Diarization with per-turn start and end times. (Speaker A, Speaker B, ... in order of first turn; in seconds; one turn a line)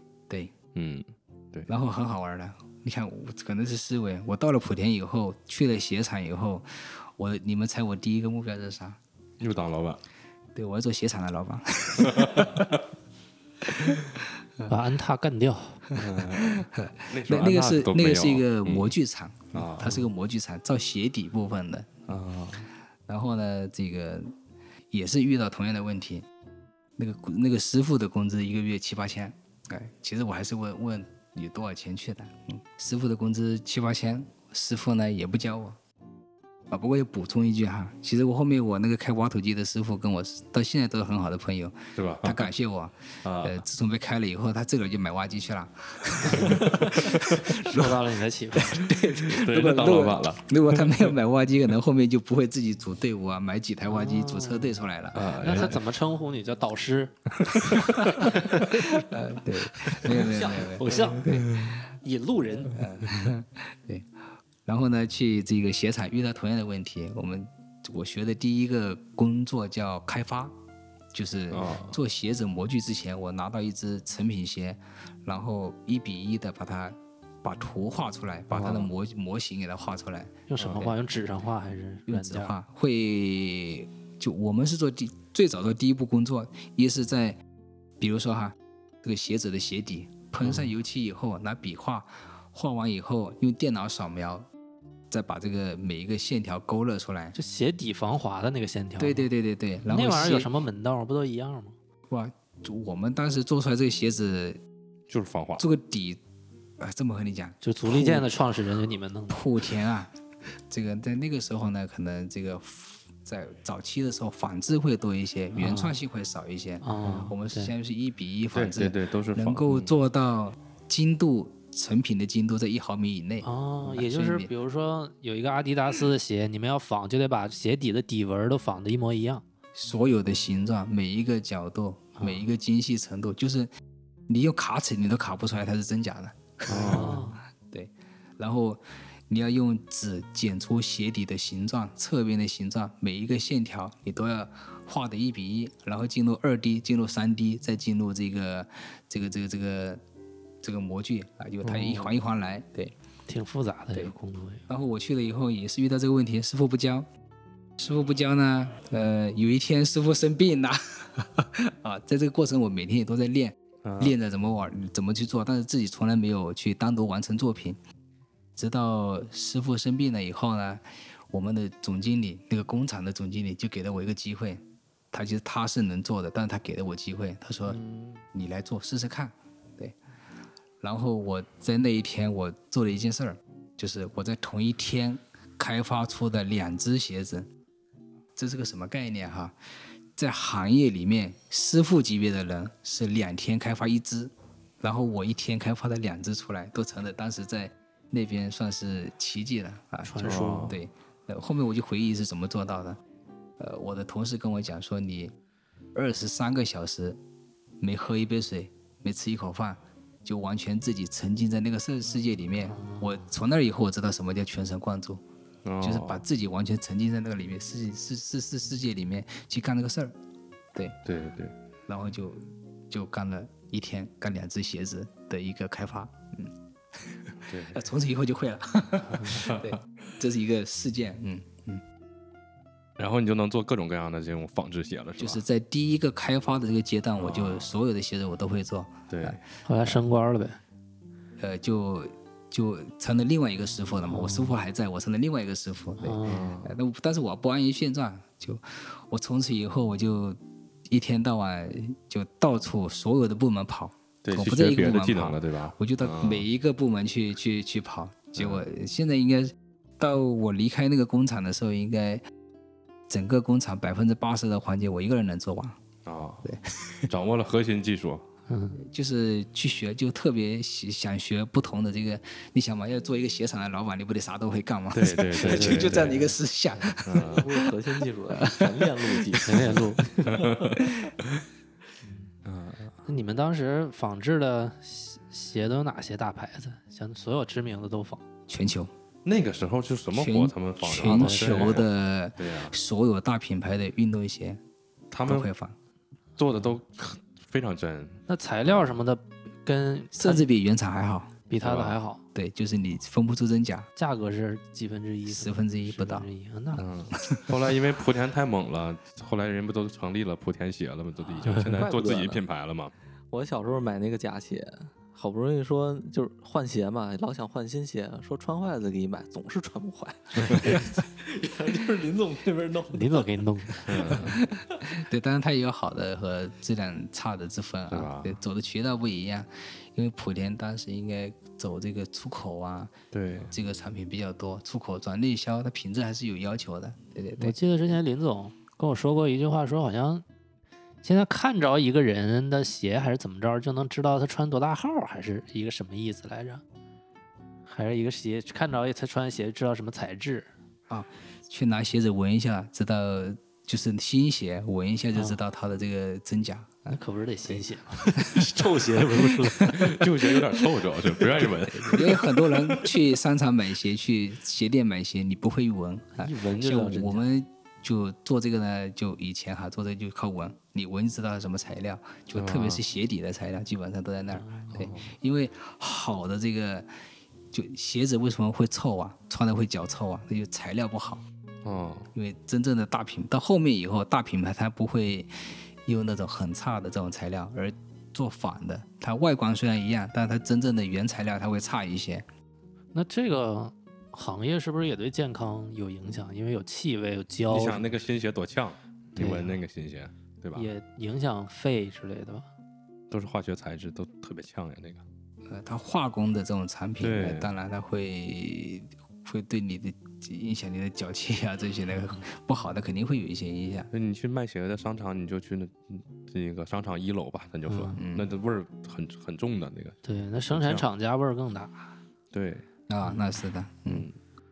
Speaker A: 0.3-0.5
Speaker B: 0.8-1.7
Speaker A: 1.7-9.0
Speaker B: 9.4-10.0
Speaker A: 10.6-12.8
Speaker B: 12.0-12.6
Speaker A: 13.6-14.7
Speaker C: 14.7-15.8
Speaker A: 15.9-22.1
Speaker B: 16.0-18.9
Speaker B: 19.5-20.1
Speaker B: 22.1-22.7
Speaker A: 23.1-24.3
Speaker A: 24.9-26.3
Speaker A: 27.0-35.8
Speaker A: 36.7-48.0
Speaker B: 42.0-42.5
Speaker B: 43.2-43.6
Speaker C: 46.2-47.0
Speaker B: 46.5-47.2
Speaker C: 47.6-48.9
Speaker A: 48.7-55.3
Speaker B: 49.2-51.1
Speaker C: 53.9-58.8
Speaker B: 55.1-55.8
Speaker A: 57.9-61.8
Speaker C: 60.1-61.4
Speaker D: 60.6-61.2
Speaker B: 61.3-61.8
Speaker C: 62.0-62.9
Speaker A: 62.7-64.1
Speaker B: 62.8-63.1
Speaker A: 64.7-70.5
Speaker A: 71.1-81.0
Speaker B: 71.5-72.0
Speaker B: 78.5-78.9
Speaker C: 80.5-82.5
Speaker A: 82.1-87.4
Speaker A: 88.0-94.5
Speaker C: 90.4-90.7
Speaker A: 95.1-97.3
Speaker C: 97.3-99.3
Speaker A: 99.0-100.5
Speaker C: 99.9-101.8
Speaker A: 102.1-104.6
Speaker B: 105.1-105.7
Speaker A: 105.6-106.2
Speaker A: 106.8-108.3
Speaker C: 107.6-109.4
Speaker A: 109.3-110.1
Speaker A: 110.7-124.5
Speaker C: 115.5-116.0
Speaker C: 116.8-117.7
Speaker B: 118.5-119.9
Speaker C: 123.4-129.4
Speaker A: 129.8-133.7
Speaker C: 132.2-132.5
Speaker A: 134.3-150.0
Speaker B: 136.7-137.2
Speaker C: 136.7-137.4
Speaker D: 137.0-137.3
Speaker A: 150.6-152.9
Speaker C: 151.7-152.1
Speaker C: 153.3-154.6
Speaker A: 154.7-157.1
Speaker A: 157.8-167.8
Speaker B: 163.8-164.2
Speaker A: 168.6-177.8
Speaker D: 177.7-178.2
Speaker A: 178.3-179.9
Speaker A: 180.8-187.5
Speaker A: 188.4-189.6
Speaker A: 190.2-203.0
Speaker C: 200.0-200.8
Speaker B: 200.2-200.8
Speaker A: 203.6-205.3
Speaker A: 205.9-207.2
Speaker A: 207.8-215.2
Speaker C: 212.7-213.3
Speaker B: 215.7-216.2
Speaker A: 215.8-220.2
Speaker B: 221.1-221.5
Speaker A: 221.9-231.8
Speaker B: 227.5-227.8
Speaker B: 229.3-229.8
Speaker B: 233.0-235.4
Speaker A: 235.2-239.4
Speaker B: 237.2-237.7
Speaker B: 239.1-239.9
Speaker C: 239.7-240.6
Speaker A: 241.4-262.2
Speaker C: 244.1-244.6
Speaker C: 246.0-246.5
Speaker B: 246.2-246.8
Speaker B: 254.2-256.5
Speaker B: 258.4-258.6
Speaker A: 263.1-265.8
Speaker B: 266.1-266.5
Speaker A: 266.4-267.1
Speaker B: 267.1-268.2
Speaker C: 268.5-268.9
Speaker A: 268.8-277.6
Speaker B: 274.9-276.3
Speaker D: 275.4-276.0
Speaker B: 277.0-277.5
Speaker D: 277.1-281.1
Speaker A: 278.3-279.4
Speaker C: 279.4-280.1
Speaker B: 280.2-281.4
Speaker C: 282.0-282.3
Speaker B: 282.4-282.9
Speaker C: 283.1-288.2
Speaker A: 288.5-288.9
Speaker B: 289.2-292.8
Speaker A: 290.1-294.6
Speaker C: 290.9-291.8
Speaker B: 295.1-295.5
Speaker A: 295.3-295.8
Speaker B: 296.4-298.9
Speaker C: 298.3-300.5
Speaker A: 300.1-301.4
Speaker C: 301.5-302.2
Speaker B: 301.6-302.0
Speaker A: 302.4-303.9
Speaker C: 304.0-306.9
Speaker A: 305.3-306.3
Speaker B: 306.8-312.9
Speaker A: 307.1-307.6
Speaker C: 311.4-311.8
Speaker D: 311.8-312.4
Speaker D: 313.3-324.1
Speaker B: 320.4-320.8
Speaker C: 322.9-324.2
Speaker B: 323.9-324.4
Speaker A: 324.2-333.0
Speaker B: 327.9-328.4
Speaker B: 333.1-333.5
Speaker A: 333.5-337.6
Speaker C: 337.4-340.2
Speaker C: 341.0-346.6
Speaker C: 347.7-350.5
Speaker A: 350.9-358.6
Speaker C: 356.9-360.0
Speaker A: 359.2-360.0
Speaker B: 359.7-363.0
Speaker A: 361.6-376.9
Speaker C: 366.2-367.2
Speaker B: 372.4-372.8
Speaker C: 374.3-374.9
Speaker B: 374.7-375.1
Speaker A: 377.5-381.2
Speaker B: 381.6-382.1
Speaker A: 382.1-392.3
Speaker C: 392.9-397.9
Speaker B: 397.5-400.7
Speaker C: 399.2-399.6
Speaker C: 400.6-402.5
Speaker B: 403.1-405.0
Speaker A: 405.4-413.9
Speaker B: 407.0-407.5
Speaker B: 413.9-420.0
Speaker C: 417.7-418.0
Speaker A: 418.0-418.3
Speaker C: 420.0-421.9
Speaker B: 420.5-420.8
Speaker B: 422.3-422.7
Speaker A: 422.9-424.1
Speaker C: 423.0-423.3
Speaker B: 423.9-424.1